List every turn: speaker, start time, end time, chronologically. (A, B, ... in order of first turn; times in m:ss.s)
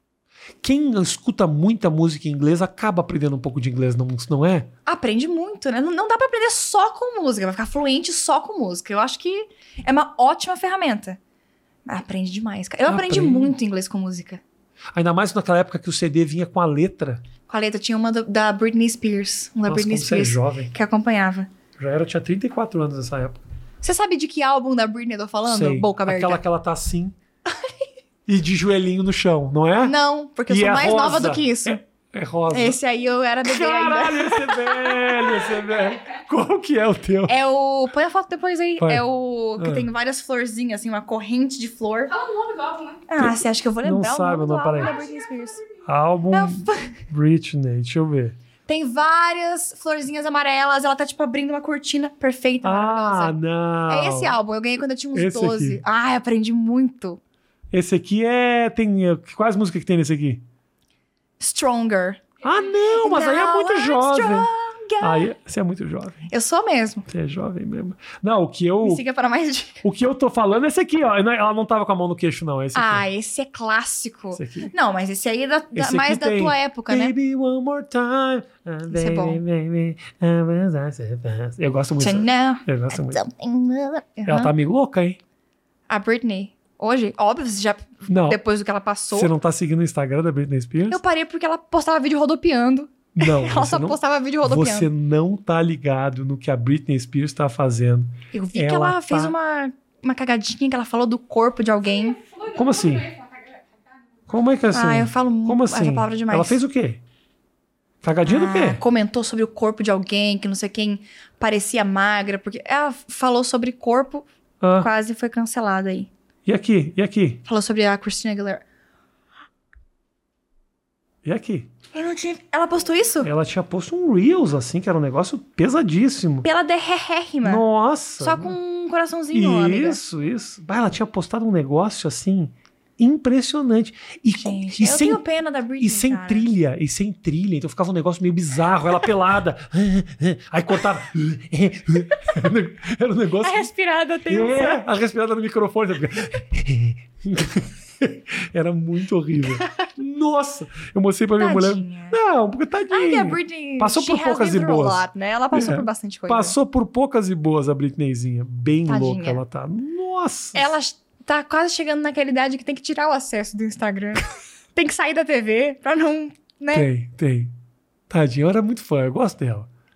0:00.6-0:04.7 A
0:04.9-0:11.2 B
0:11.9-0:14.4 B
0:12.9-0:13.5 A
0:14.9-0:17.2 A
0:17.5-0:21.5 B
0:19.7-0:20.7 A
0:21.8-0:23.4 A
0:23.8-0:26.4 B
0:25.5-0:27.2 A
0:28.3-0:30.0 A
0:29.8-0:31.8 B
0:30.5-0:32.8 A
0:32.5-0:35.5 B
0:33.4-0:37.4 A
0:37.3-0:42.1 B
0:38.8-0:39.0 A
0:39.6-0:39.9 A
0:42.1-0:43.1 C
0:43.1-0:45.6 B
0:43.2-0:45.0 A
0:44.8-0:45.6 C
0:45.8-0:48.4 A
0:46.3-0:47.0 B
0:48.7-0:53.4 B
0:52.6-0:54.4 A
0:53.9-0:57.2 B
0:55.1-0:55.8 A
0:57.7-1:00.4 A
1:01.4-1:05.3 B
1:02.4-1:06.3 A
1:06.3-1:07.1 B
1:07.1-1:09.0 A
1:08.8-1:09.8 B
1:09.8-1:13.0 A
1:12.8-1:17.1 B
1:14.4-1:14.7 A
1:15.7-1:23.2 A
1:18.9-1:19.4 B
1:22.0-1:24.5 B
1:24.3-1:25.2 A
1:25.9-1:29.3 B
1:28.1-1:28.4 A
1:29.1-1:31.0 A
1:30.9-1:34.9 B
1:33.2-1:39.4 A
1:38.3-1:42.2 B
1:41.9-1:44.2 C
1:42.5-1:43.1 A
1:44.3-1:47.0 A
1:44.7-1:46.6 B
1:48.0-1:48.8 A
1:48.2-1:56.1 B
1:54.6-1:54.9 A
1:56.5-1:57.4 A
1:57.5-1:58.6 B
2:01.2-2:01.7 A
2:01.9-2:03.3 B
2:03.2-2:06.5 A
2:06.4-2:07.6 B
2:07.4-2:08.6 A
2:08.2-2:10.0 B
2:09.3-2:15.2 A
2:14.4-2:16.5 B
2:15.8-2:23.7 A
2:23.4-2:24.8 B
2:24.3-2:40.7 A
2:31.4-2:32.2 B
2:32.9-2:36.6 B
2:38.9-2:39.4 B
2:40.6-2:46.9 B
2:46.7-2:47.5 A
2:48.1-2:49.7 A